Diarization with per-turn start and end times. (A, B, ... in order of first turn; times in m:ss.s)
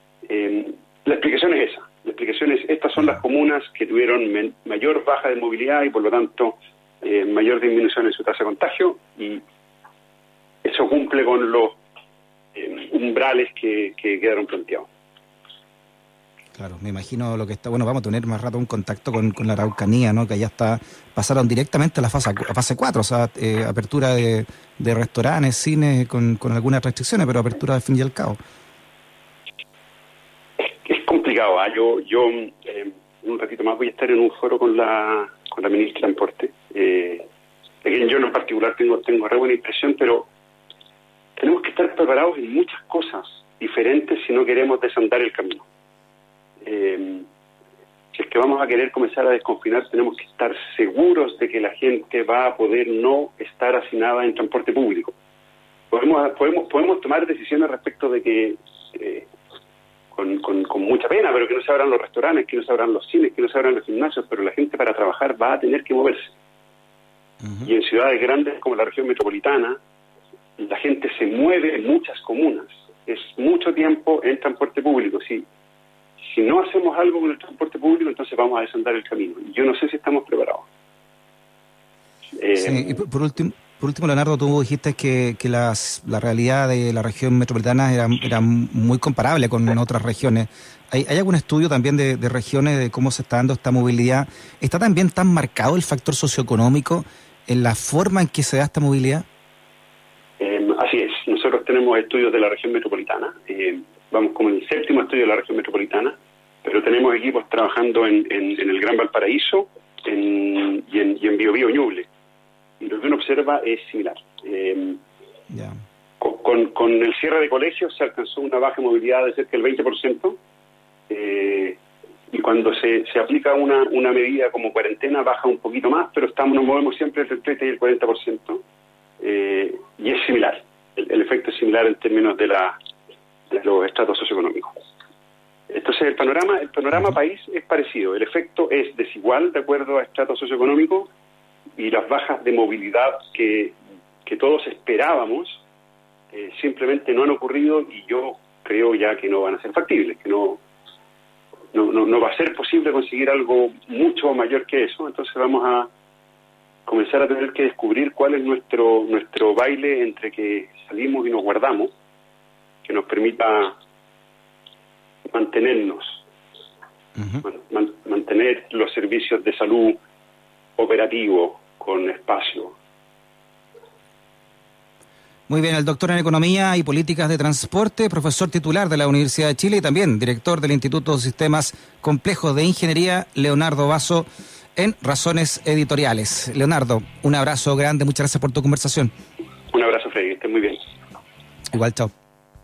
0:00.2-0:09.4 A
0:10.6-0:11.8 A
0:12.5-0:14.9 A
0:16.5-0:28.4 B
0:30.8-0:37.2 A
0:37.8-0:40.3 A
0:41.4-0:45.6 A
0:46.6-0:47.2 A
0:48.1-0:55.1 A
0:55.9-0:59.3 A
1:00.1-1:06.3 A
1:07.6-1:09.8 A
1:10.6-1:15.4 A
1:16.2-1:20.6 A
1:22.4-1:23.0 A
1:22.6-1:39.2 B
1:40.4-1:52.1 A
1:52.8-1:55.0 A
1:55.5-1:55.8 B
1:56.2-2:00.4 A
2:01.1-2:01.8 A
2:02.3-2:08.6 A
2:09.2-2:12.8 A
2:13.5-2:14.7 A
2:15.7-2:21.1 A
2:21.8-2:25.6 A
2:26.3-2:30.6 A
2:31.7-2:35.9 A
2:36.8-2:41.9 A
2:42.8-2:43.7 A
2:45.3-2:46.2 A
2:47.4-2:50.0 A
2:50.8-2:52.7 A
2:55.5-3:09.1 B
3:09.7-3:10.8 A
3:11.7-3:12.1 B